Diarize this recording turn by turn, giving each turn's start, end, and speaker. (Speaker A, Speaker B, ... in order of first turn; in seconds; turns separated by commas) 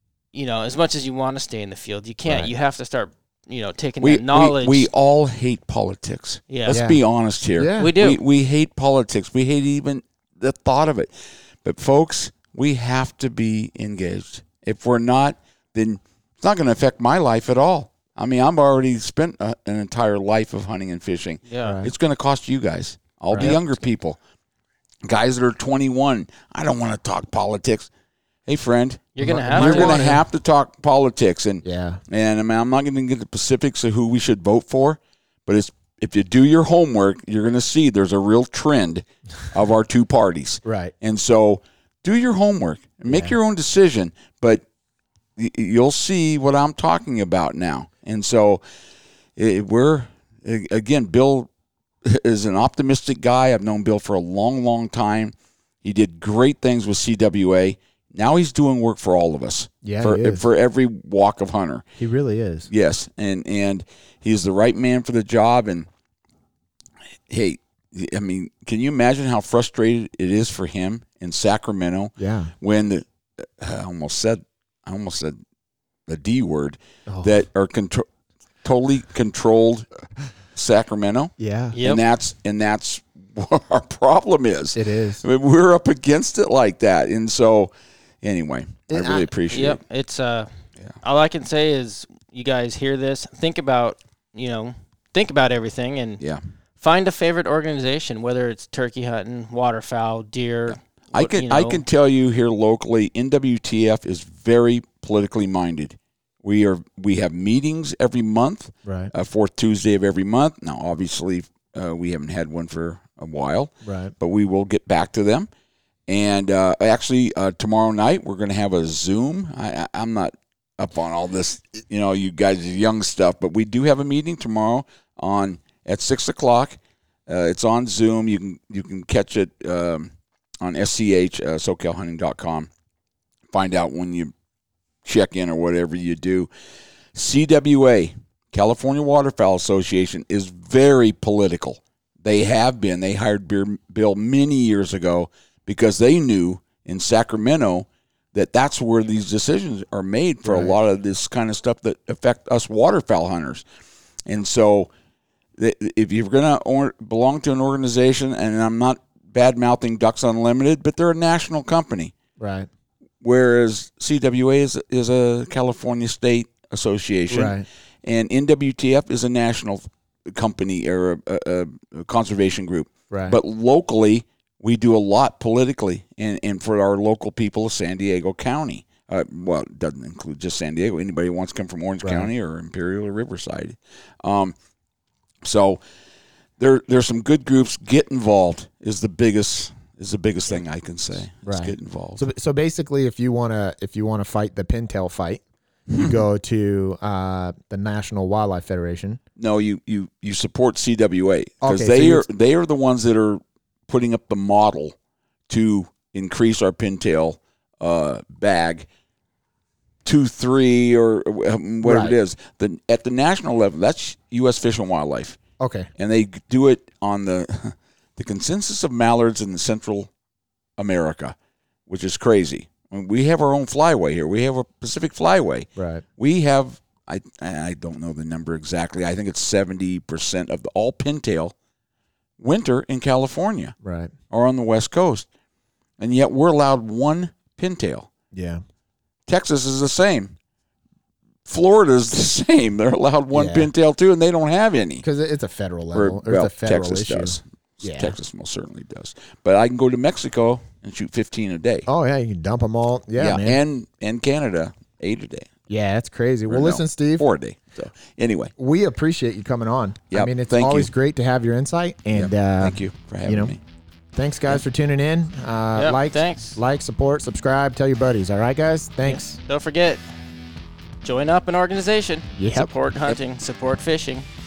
Speaker A: 0.3-4.9, Speaker B: 2.2-2.5, Speaker C: 4.0-24.2, Speaker A: 6.5-6.8, Speaker B: 6.7-7.0, Speaker B: 7.6-7.9, Speaker A: 7.8-8.2, Speaker A: 21.5-21.8, Speaker B: 21.6-21.9, Speaker C: 25.0-27.9, Speaker C: 28.4-44.6, Speaker A: 29.1-30.1, Speaker B: 29.2-30.2, Speaker B: 31.6-32.0, Speaker B: 40.6-40.9, Speaker B: 43.1-43.4, Speaker C: 45.4-48.6, Speaker C: 49.4-51.5, Speaker C: 52.0-61.9, Speaker B: 59.8-60.4, Speaker B: 62.0-62.7, Speaker C: 62.7-65.9, Speaker C: 67.3-75.4, Speaker B: 72.2-72.5, Speaker C: 76.1-78.0, Speaker B: 77.1-77.3, Speaker C: 78.6-79.9, Speaker C: 80.5-89.8, Speaker B: 81.4-81.8, Speaker A: 81.7-82.0, Speaker B: 84.7-85.2, Speaker B: 88.9-89.3, Speaker A: 89.5-96.2, Speaker A: 96.8-101.8, Speaker C: 100.7-115.5, Speaker B: 108.8-109.1, Speaker B: 113.8-114.1, Speaker C: 116.1-132.7, Speaker C: 133.5-134.3, Speaker C: 135.0-136.5, Speaker C: 137.1-153.6, Speaker B: 150.4-150.8, Speaker C: 154.2-154.9, Speaker C: 155.6-162.1, Speaker B: 162.4-162.7, Speaker C: 163.2-184.5, Speaker B: 167.3-167.7, Speaker B: 173.1-173.4, Speaker B: 182.0-182.3, Speaker C: 185.4-185.8, Speaker C: 186.6-192.2, Speaker B: 191.4-199.2, Speaker C: 195.9-196.2, Speaker C: 199.4-204.9, Speaker B: 201.6-202.3, Speaker C: 205.5-208.9, Speaker C: 210.0-215.4, Speaker B: 211.8-212.2, Speaker B: 215.6-215.9, Speaker C: 215.9-220.1, Speaker C: 220.8-221.3, Speaker C: 221.9-231.5, Speaker B: 225.8-226.0, Speaker C: 232.4-233.8, Speaker B: 233.8-234.1, Speaker C: 234.3-235.3, Speaker C: 236.0-238.1, Speaker B: 238.3-238.6, Speaker C: 239.3-240.3, Speaker C: 241.5-245.0, Speaker B: 243.3-243.7, Speaker B: 245.0-248.1, Speaker C: 245.9-251.9, Speaker B: 251.9-253.6, Speaker C: 253.2-255.5, Speaker B: 255.7-257.2, Speaker C: 256.5-258.5, Speaker B: 258.6-263.5, Speaker C: 260.1-260.9, Speaker C: 262.1-263.6, Speaker B: 264.1-269.4, Speaker A: 265.8-266.6, Speaker A: 269.0-270.0, Speaker A: 271.0-274.2, Speaker B: 272.4-272.7